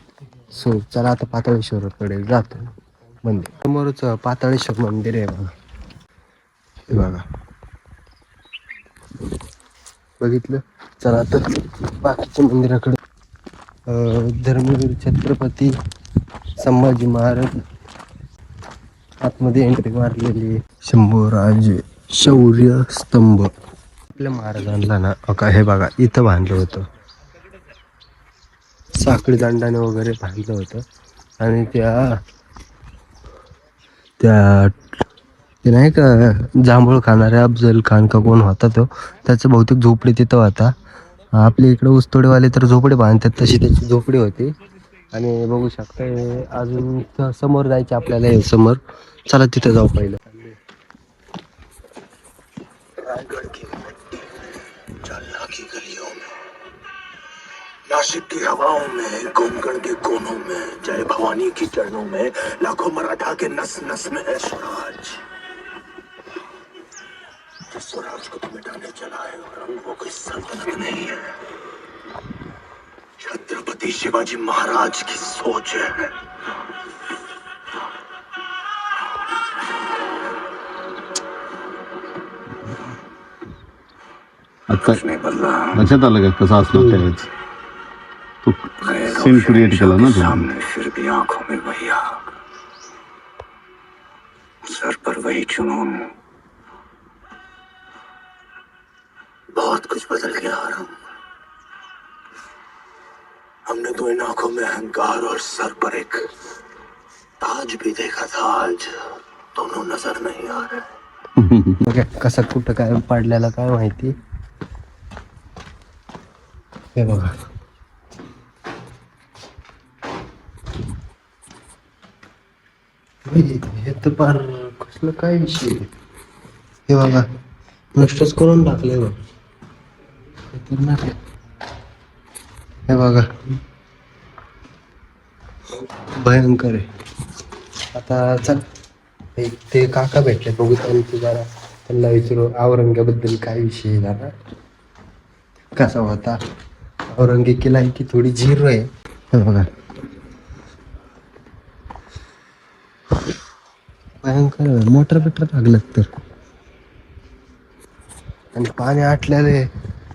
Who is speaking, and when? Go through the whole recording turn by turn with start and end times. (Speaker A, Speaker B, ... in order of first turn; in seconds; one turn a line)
Speaker A: 0.5-2.7
Speaker A: 3.2-5.5
Speaker A: 6.9-7.3
Speaker A: 10.2-13.0
Speaker A: 13.9-15.8
Speaker A: 16.6-17.6
Speaker A: 19.2-23.5
Speaker A: 24.1-26.9
Speaker A: 29.0-30.9
Speaker A: 31.4-32.2
Speaker A: 34.2-35.0
Speaker A: 35.6-40.8
Speaker A: 41.3-44.5
Speaker A: 45.1-50.6
Speaker A: 53.0-54.2
Speaker A: 55.0-56.4
Speaker B: 57.9-65.2
Speaker A: 57.9-65.1
Speaker B: 67.7-71.4
Speaker A: 69.6-70.5
Speaker B: 73.2-76.2
Speaker C: 84.7-87.3
Speaker B: 85.0-85.8
Speaker C: 88.4-90.6
Speaker B: 88.9-92.3
Speaker B: 94.6-96.1
Speaker B: 99.6-101.0
Speaker A: 99.7-100.0
Speaker B: 103.7-106.2
Speaker A: 103.8-106.2
Speaker B: 107.4-108.9
Speaker A: 107.5-109.0
Speaker B: 109.6-110.7
Speaker A: 109.6-110.8
Speaker A: 111.5-114.2
Speaker A: 117.0-117.4
Speaker A: 123.2-125.9
Speaker A: 126.9-127.3
Speaker A: 127.9-129.2
Speaker A: 130.5-131.2
Speaker A: 132.9-133.3
Speaker A: 136.1-136.9
Speaker A: 137.9-138.7
Speaker A: 139.4-144.3
Speaker A: 145.8-146.4
Speaker A: 147.1-149.7
Speaker A: 154.2-156.1
Speaker A: 158.5-159.7